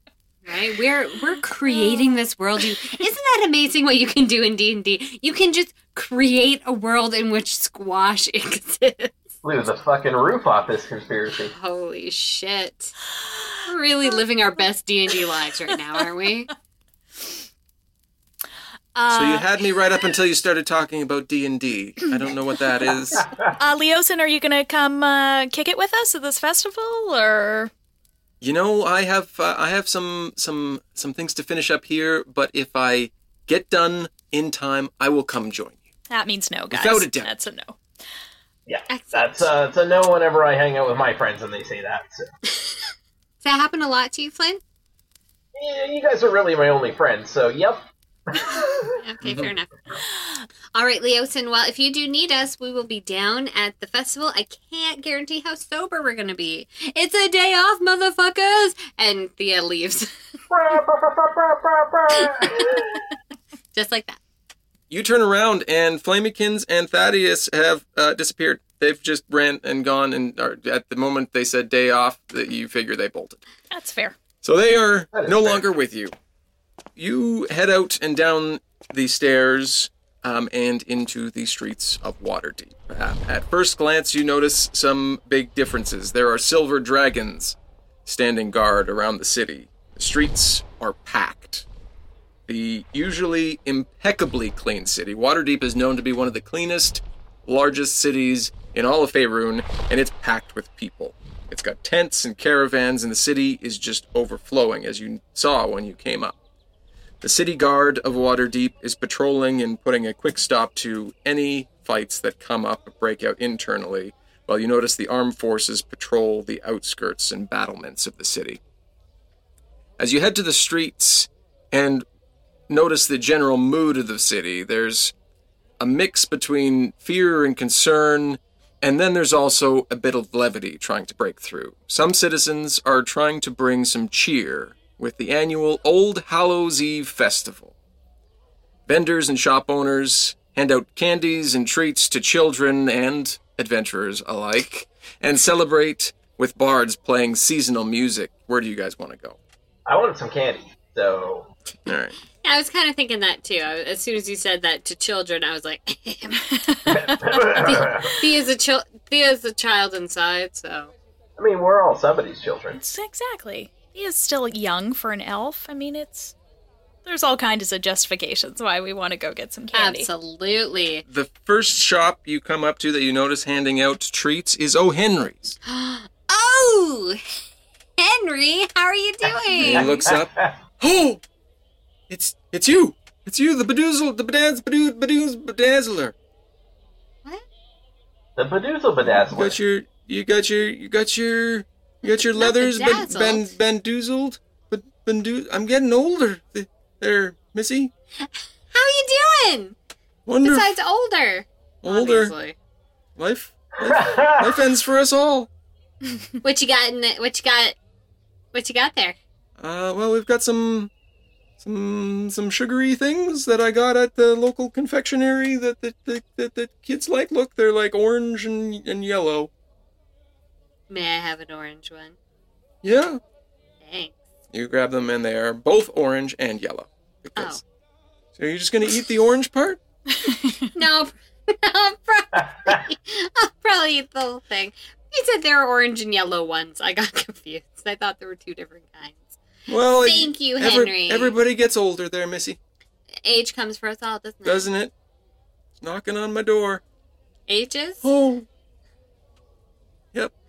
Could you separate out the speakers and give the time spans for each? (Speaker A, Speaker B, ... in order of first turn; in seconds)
Speaker A: 0.4-9.1, 11.5-12.9, 13.7-16.5, 38.9-39.5, 43.4-44.6, 49.0-49.7, 50.7-60.1, 63.7-64.2, 152.4-156.5, 157.4-160.9, 169.7-171.0, 175.7-177.2, 178.0-179.9, 192.0-193.5, 198.7-199.8, 200.4-202.6, 206.4-207.8, 208.5-209.2, 220.9-222.2, 223.8-224.2, 227.3-227.6, 230.8-239.4, 240.0-241.4, 243.2-244.7, 247.5-248.1
Speaker B: 1.6-2.1, 18.9-19.5, 23.6-27.7, 36.1-37.8, 73.7-74.2, 156.6-157.0, 162.7-166.3, 167.0-170.1, 230.2-230.7
Speaker C: 9.4-11.5, 38.7-42.2, 45.6-49.0, 60.5-62.9, 75.1-75.7, 149.9-151.5, 156.9-158.2, 161.4-162.8, 179.6-180.5, 188.4-189.6, 203.8-204.6
Speaker D: 19.1-23.2, 28.4-35.9, 36.7-37.3, 49.2-49.5, 64.9-73.4, 74.4-76.1, 77.0-91.7, 92.5-106.3, 107.2-118.6, 120.0-122.0, 122.7-125.1, 125.8-137.7, 138.9-149.4, 151.8-152.2, 171.1-175.6, 179.6-181.2, 182.1-186.1, 189.1-197.9, 200.2-200.7, 201.8-202.3, 203.2-205.5, 209.6-210.9, 211.6-219.5, 222.8-223.2, 224.5-227.6, 228.4-229.8, 239.7-242.6, 244.4-244.9, 245.8-246.8, 248.0-248.4